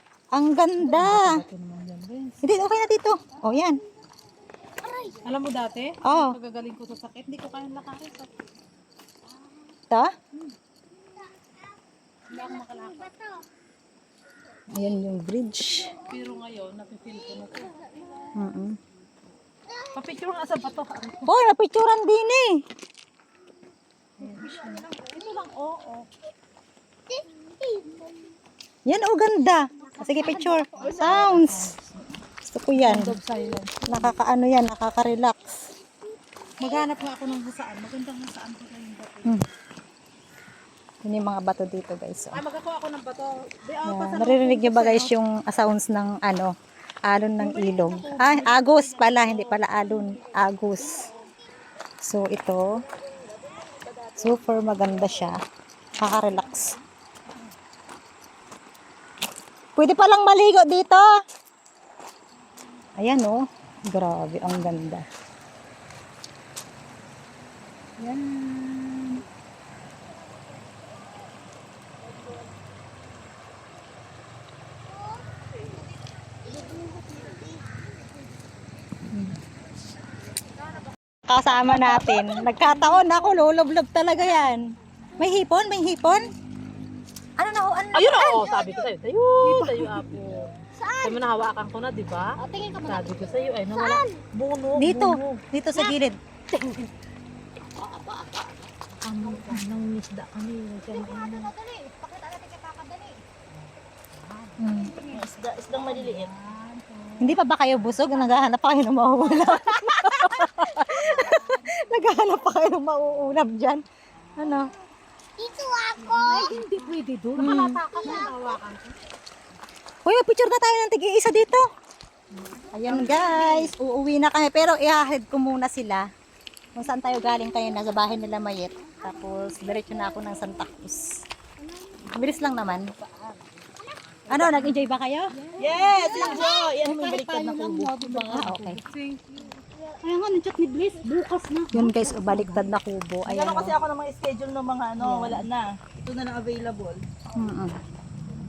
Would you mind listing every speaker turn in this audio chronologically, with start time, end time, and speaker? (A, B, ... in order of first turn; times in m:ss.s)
0:00.3-0:01.4 A
0:00.8-0:02.4 B
0:02.4-0:03.8 A
0:05.2-0:08.3 B
0:06.0-0:06.4 A
0:09.9-0:10.2 A
0:12.3-0:13.3 B
0:14.7-0:15.9 A
0:16.1-0:17.8 B
0:17.8-0:18.4 C
0:18.3-0:18.8 A
0:19.9-0:21.3 B
0:21.2-0:22.6 A
0:24.2-0:25.3 C
0:24.2-0:26.1 B
0:28.8-0:31.7 A
0:29.8-0:31.5 C
0:30.7-0:32.0 B
0:32.5-0:33.1 A
0:32.7-0:34.1 B
0:33.9-0:35.5 A
0:36.6-0:39.4 B
0:41.0-0:42.4 A
0:42.3-0:45.1 B
0:43.8-0:46.5 A
0:47.1-0:51.1 A
0:47.4-0:48.9 B
0:49.2-0:49.6 D
0:52.0-0:52.8 A
0:52.8-0:54.9 D
0:54.2-0:55.4 A
0:56.0-0:56.7 A
0:59.8-1:01.1 A
1:03.0-1:05.0 A
1:08.0-1:09.2 A
1:16.5-1:17.4 D
1:21.3-1:24.6 A
1:25.2-1:26.3 A
1:27.4-1:28.8 A
1:27.9-1:30.4 B
1:30.8-1:31.3 C
1:31.0-1:35.4 B
1:32.4-1:33.7 C
1:33.6-1:34.0 A
1:34.8-1:36.2 A
1:36.5-1:36.9 C
1:37.8-1:40.0 C
1:39.0-1:41.5 D
1:40.7-1:48.1 C
1:44.6-1:45.0 A
1:45.1-1:46.3 D
1:47.2-1:53.8 A
1:49.4-1:52.2 C
1:54.1-1:54.7 C
1:54.4-1:54.7 A
1:55.4-1:58.9 C
1:56.0-1:58.7 B
1:57.4-1:58.2 A
2:00.0-2:01.6 A
2:02.4-2:03.1 C
2:02.7-2:06.1 A
2:06.7-2:11.2 A
2:12.0-2:12.9 A
2:12.7-2:14.8 C
2:14.3-2:15.3 A
2:15.3-2:16.6 C
2:15.6-2:18.1 D
2:15.8-2:18.8 A
2:18.1-2:22.7 C
2:18.4-2:19.4 B
2:21.7-2:23.8 A
2:23.2-2:27.0 D
2:25.0-2:25.4 A
2:27.3-2:27.8 A